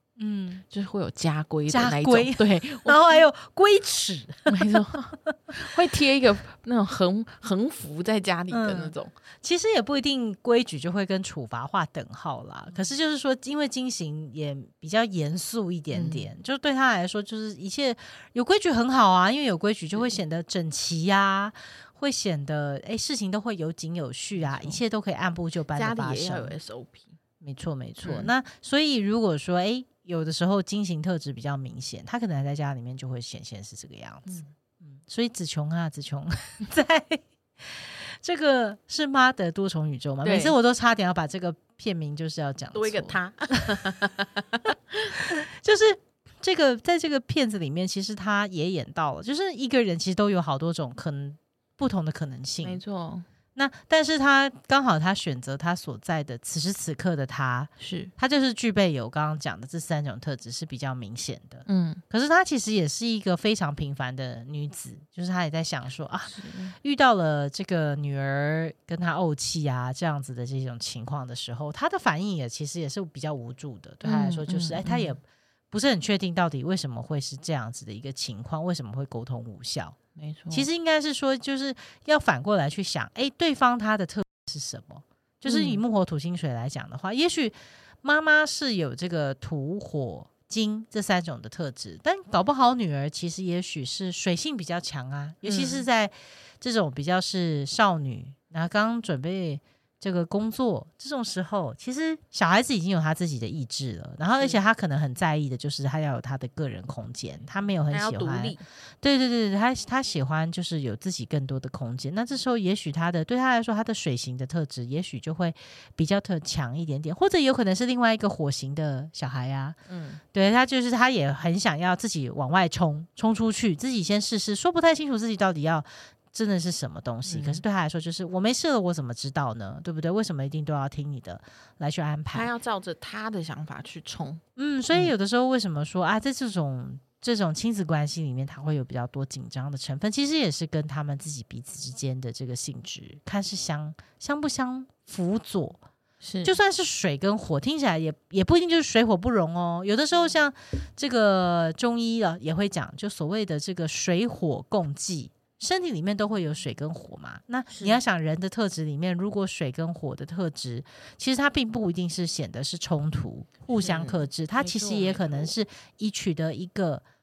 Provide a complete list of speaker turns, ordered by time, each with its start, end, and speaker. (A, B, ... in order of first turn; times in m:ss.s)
0:00.2-0:00.6 A
0:00.7-0:03.2 B
0:01.7-0:04.7 A
0:04.5-0:09.1 B
0:05.2-0:05.6 A
0:08.5-0:26.5 A
0:15.9-0:16.3 B
0:19.9-0:20.2 B
0:24.3-0:24.8 B
0:25.7-0:27.2 B
0:27.4-0:43.2 A
0:28.0-0:28.3 B
0:40.2-0:40.5 B
0:42.7-0:45.2 B
0:45.4-0:52.8 A
0:52.6-0:53.2 B
0:53.6-1:20.0 A
0:57.8-0:58.1 B
1:01.6-1:02.0 B
1:06.3-1:06.7 B
1:14.0-1:15.2 B
1:20.2-1:20.7 B
1:20.5-1:59.8 A
1:25.4-1:25.8 B
1:35.4-1:35.9 B
1:47.9-1:48.6 B
1:59.9-2:00.2 B
2:00.3-2:12.5 A
2:07.2-2:07.6 B
2:12.3-2:14.4 B
2:14.6-2:25.8 A
2:26.2-2:26.6 B
2:26.4-2:47.0 A
2:37.7-2:38.0 B
2:43.7-2:45.5 B